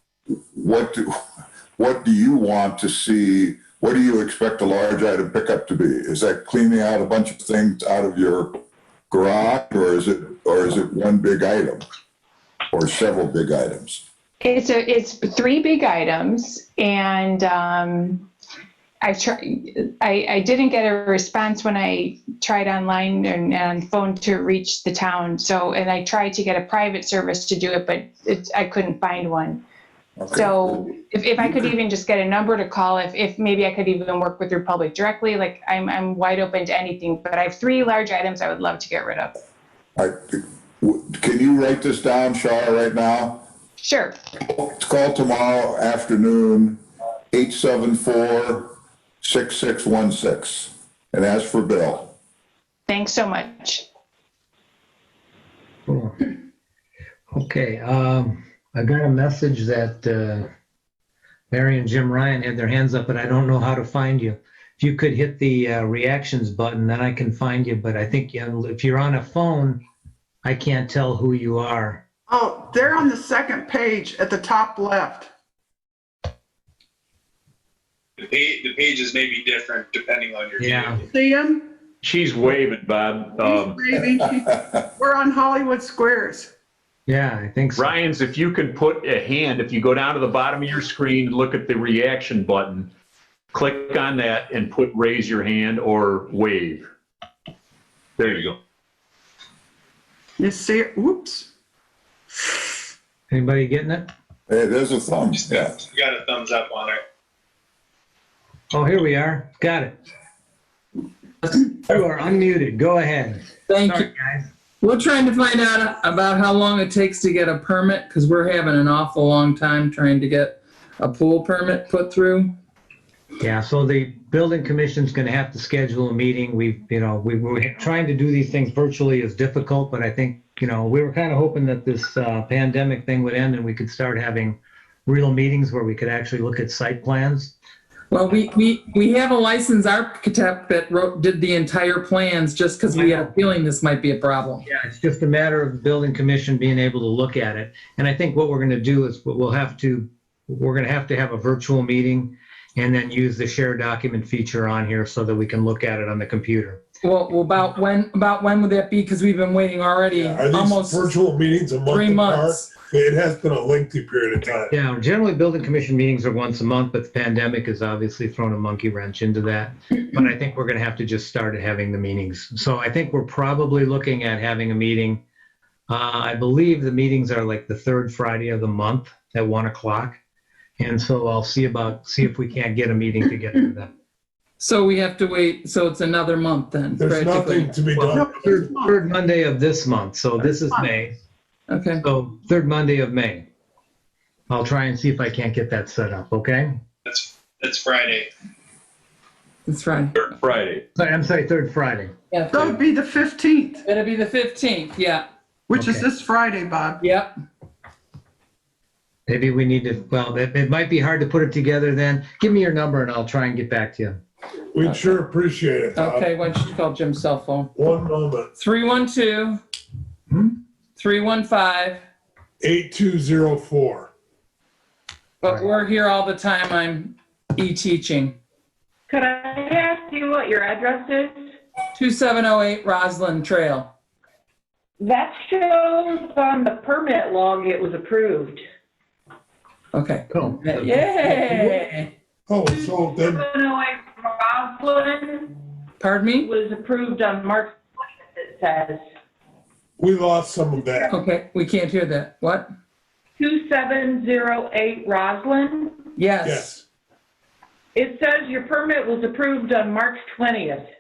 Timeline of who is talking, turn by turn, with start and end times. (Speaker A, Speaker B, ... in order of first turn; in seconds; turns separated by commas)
Speaker A: 0.5-1.1, Speaker A: 1.8-8.6, Speaker A: 9.1-11.8, Speaker A: 12.7-14.0, Speaker B: 14.4-18.2, Speaker B: 19.0-29.6, Speaker A: 30.2-31.6, Speaker B: 30.3-39.4, Speaker A: 40.0-43.5, Speaker B: 43.8-44.1, Speaker A: 44.5-46.8, Speaker A: 47.3-52.1, Speaker B: 52.9-53.8, Speaker C: 55.9-56.3, Speaker C: 57.3-60.5, Speaker C: 61.5-69.8, Speaker C: 70.4-72.0, Speaker D: 72.3-75.3, Speaker E: 78.2-80.9, Speaker C: 80.6-81.0, Speaker D: 81.0-81.7, Speaker F: 82.0-84.0, Speaker D: 83.4-86.5, Speaker C: 87.1-87.9, Speaker F: 87.8-92.9, Speaker F: 93.5-96.8, Speaker F: 98.2-98.6, Speaker D: 100.4-101.5, Speaker C: 103.3-104.1, Speaker A: 104.5-105.8, Speaker E: 105.4-107.0, Speaker C: 108.7-109.9, Speaker C: 111.4-114.5, Speaker G: 113.7-114.1, Speaker G: 114.8-122.5, Speaker C: 123.4-137.5, Speaker G: 138.1-144.7, Speaker C: 142.9-143.3, Speaker C: 144.7-156.8, Speaker G: 157.0-161.2, Speaker H: 160.1-164.7, Speaker G: 161.9-162.7, Speaker C: 164.7-175.2, Speaker C: 175.9-180.2, Speaker C: 180.8-183.9, Speaker G: 184.6-187.7, Speaker H: 187.0-188.6, Speaker C: 188.0-191.1, Speaker D: 188.1-189.0, Speaker D: 190.4-190.9, Speaker G: 191.7-192.0, Speaker C: 192.0-193.5, Speaker C: 194.5-196.8, Speaker E: 197.1-198.3, Speaker G: 199.7-200.3, Speaker F: 200.2-200.8, Speaker C: 200.9-202.1, Speaker G: 202.3-202.7, Speaker D: 202.5-203.9, Speaker G: 203.8-205.2, Speaker D: 205.7-207.0, Speaker C: 205.7-206.1, Speaker G: 207.0-207.3, Speaker C: 209.3-214.2, Speaker H: 214.7-216.3, Speaker G: 216.0-217.7, Speaker H: 217.8-218.5, Speaker G: 218.6-219.6, Speaker G: 221.0-222.0, Speaker H: 222.6-224.1, Speaker G: 225.4-228.4, Speaker I: 229.1-231.3, Speaker G: 231.9-233.9, Speaker I: 235.0-238.6, Speaker G: 239.9-242.1, Speaker C: 240.3-241.7, Speaker H: 242.5-243.5, Speaker I: 242.7-245.5, Speaker G: 246.0-246.5, Speaker I: 246.4-247.7, Speaker I: 248.6-249.0, Speaker H: 250.0-251.2, Speaker G: 251.1-252.7, Speaker I: 253.4-255.9, Speaker G: 256.2-256.7, Speaker H: 256.4-256.8, Speaker I: 258.0-260.9